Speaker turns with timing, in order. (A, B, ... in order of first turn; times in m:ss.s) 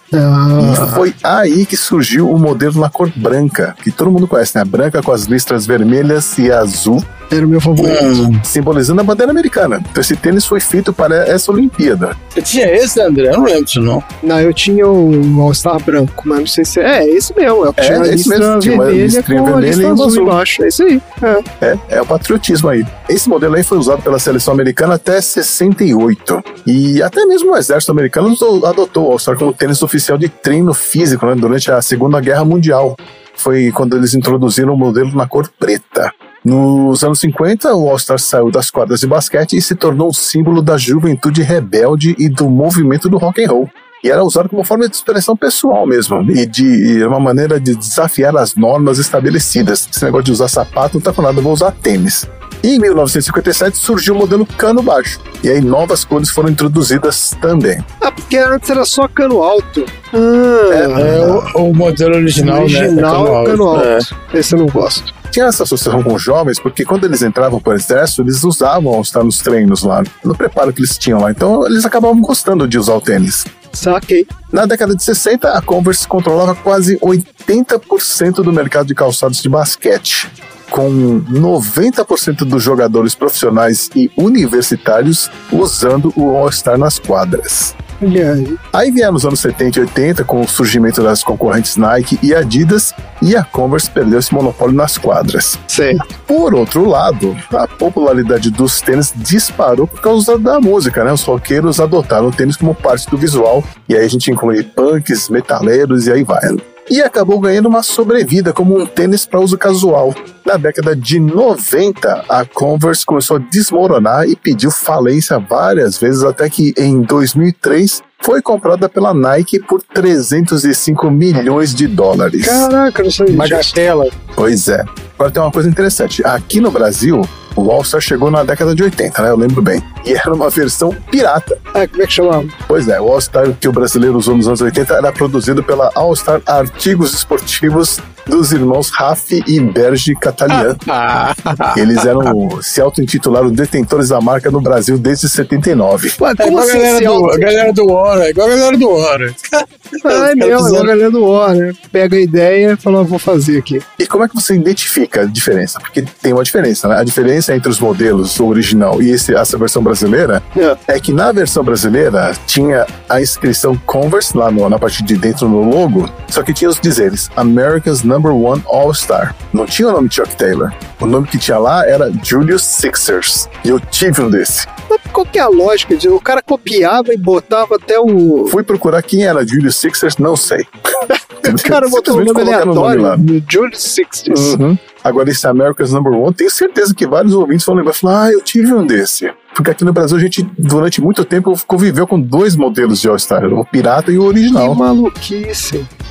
0:00.1-0:01.0 A
0:00.6-0:07.1 B
0:07.3-0:08.2 A
0:07.8-0:08.4 C
0:08.4-0:12.2 B
0:12.3-0:14.0 C
0:14.2-0:21.4 A
0:17.8-0:20.4 B
0:21.6-0:57.8 B
0:58.0-1:01.4 A
1:00.7-1:01.4 B
1:00.9-1:04.0 C
1:02.4-1:05.1 A
1:05.3-1:13.5 B
1:13.7-1:14.3 A
1:14.5-1:27.7 B
1:28.0-1:28.6 A
1:28.7-2:02.7 B
1:35.7-1:36.0 A
2:02.4-2:03.7 A
2:03.3-2:04.1 C
2:04.4-2:11.6 B
2:11.7-2:12.5 A
2:12.7-2:20.8 B
2:20.5-2:22.3 C
2:21.7-2:26.2 B
2:26.2-2:27.5 A
2:26.4-2:30.9 C
2:30.0-2:33.8 A
2:34.0-2:54.7 B
2:54.9-2:58.5 A
2:58.5-3:00.7 B
3:01.4-3:03.2 B
3:01.4-3:04.6 A
3:04.3-3:14.8 B
3:14.5-3:15.9 A